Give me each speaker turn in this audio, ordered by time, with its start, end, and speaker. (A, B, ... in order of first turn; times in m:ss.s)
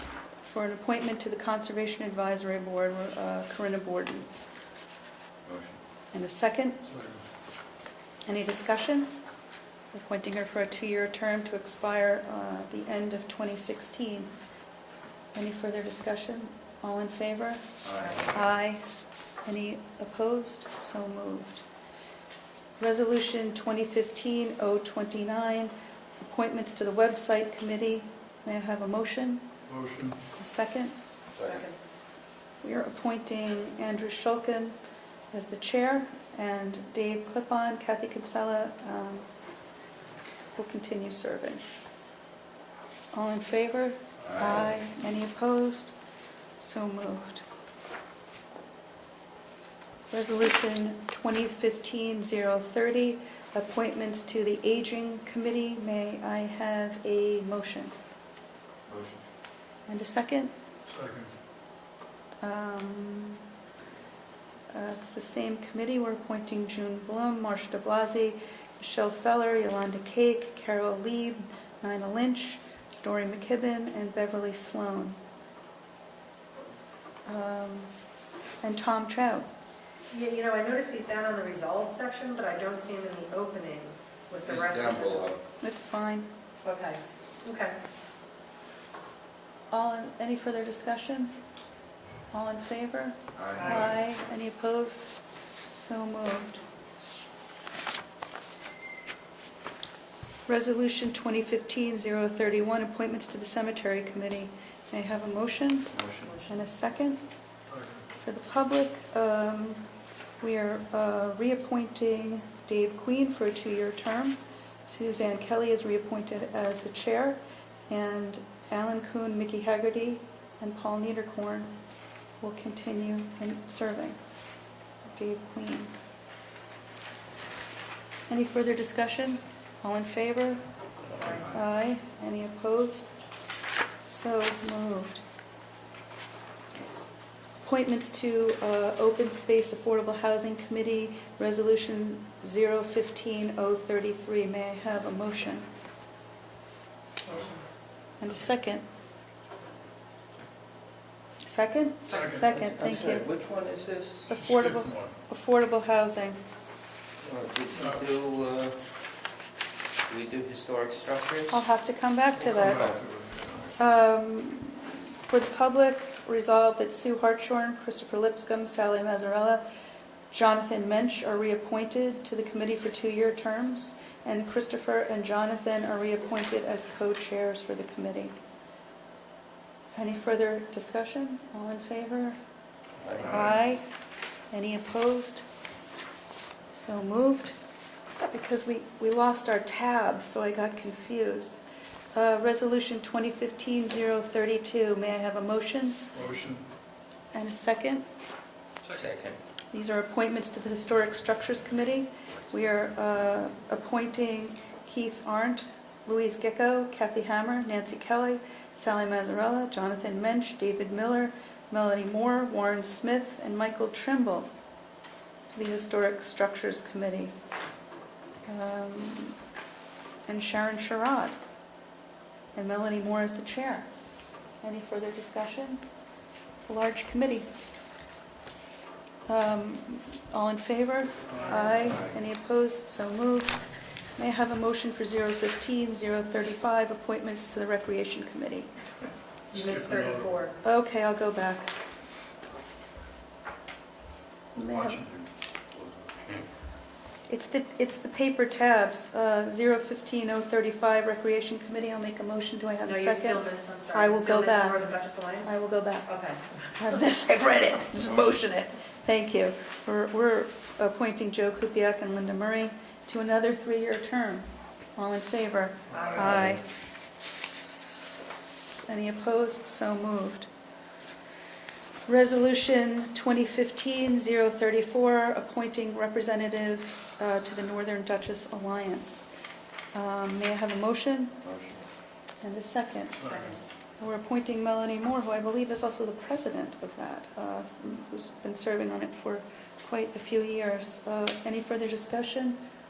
0:00.4-0:04.3 A
0:05.5-0:05.8 B
0:06.1-0:06.8 A
0:06.8-0:07.2 C
0:08.3-0:09.1 A
0:09.9-0:14.3 A
0:15.3-0:18.8 A
0:17.8-0:18.3 B
0:19.5-0:21.6 A
0:22.8-0:29.5 A
0:29.7-0:30.2 C
0:30.4-0:31.0 A
0:31.4-0:31.7 B
0:31.4-0:31.8 D
0:32.6-0:34.8 A
0:35.3-0:39.3 A
0:40.6-0:41.7 A
0:43.1-0:45.9 A
0:46.6-0:47.4 A
0:50.1-0:57.9 A
0:58.9-0:59.2 B
0:59.9-1:00.5 A
1:00.9-1:01.3 C
1:02.4-1:03.4 A
1:04.7-1:15.2 A
1:17.3-1:17.9 A
1:18.6-1:19.5 A
1:20.1-1:25.3 D
1:24.4-1:25.4 B
1:25.6-1:26.3 A
1:26.6-1:27.8 D
1:29.7-1:31.4 A
1:32.3-1:35.1 A
1:33.4-1:33.9 B
1:33.6-1:33.9 D
1:35.7-1:36.6 A
1:40.5-1:45.9 A
1:45.9-1:46.3 B
1:46.2-1:46.6 D
1:46.5-1:47.2 A
1:47.7-1:48.0 C
1:48.2-1:49.8 A
1:50.4-2:01.7 A
2:02.4-2:04.2 A
2:05.1-2:05.9 A
2:08.3-2:10.6 A
2:11.2-2:13.1 A
2:14.0-2:15.2 A
2:17.6-2:25.7 A
2:27.3-2:27.6 D
2:28.2-2:28.8 A
2:31.4-2:33.3 A
2:32.1-2:32.5 C
2:32.4-2:34.3 B
2:34.3-2:36.4 A
2:34.3-2:35.2 C
2:37.2-2:38.8 B
2:37.8-2:38.0 C
2:40.1-2:41.6 B
2:41.5-2:42.9 A
2:42.4-2:43.8 C
2:43.8-2:49.6 A
2:50.3-2:58.4 A
3:00.0-3:02.4 A
3:03.0-3:03.4 B
3:03.2-3:03.8 A
3:04.5-3:05.4 A
3:06.7-3:07.6 A
3:08.3-3:11.6 A
3:12.2-3:16.0 A
3:16.1-3:16.6 C
3:17.3-3:18.0 A
3:18.8-3:19.4 B
3:19.7-3:34.5 A
3:35.5-3:37.3 A
3:38.5-3:39.4 A
3:40.3-3:41.4 A
3:42.6-3:43.9 A
3:44.6-3:45.8 A
3:46.7-3:47.5 A
3:49.3-3:53.6 A
3:51.4-3:51.9 C
3:54.2-3:58.7 A
3:59.5-4:00.4 C
3:59.5-4:00.6 D
4:00.6-4:01.7 A
4:04.5-4:06.0 C
4:04.6-4:05.0 A
4:07.3-4:16.1 A
4:12.8-4:15.5 D
4:16.1-4:16.4 D
4:16.8-4:26.6 A
4:25.9-4:26.4 D
4:27.3-4:30.5 A
4:32.1-4:39.3 A
4:39.9-4:41.4 A
4:41.4-4:41.8 B
4:42.4-4:43.3 A
4:43.2-4:43.6 D
4:43.2-4:43.5 C
4:44.0-4:52.6 A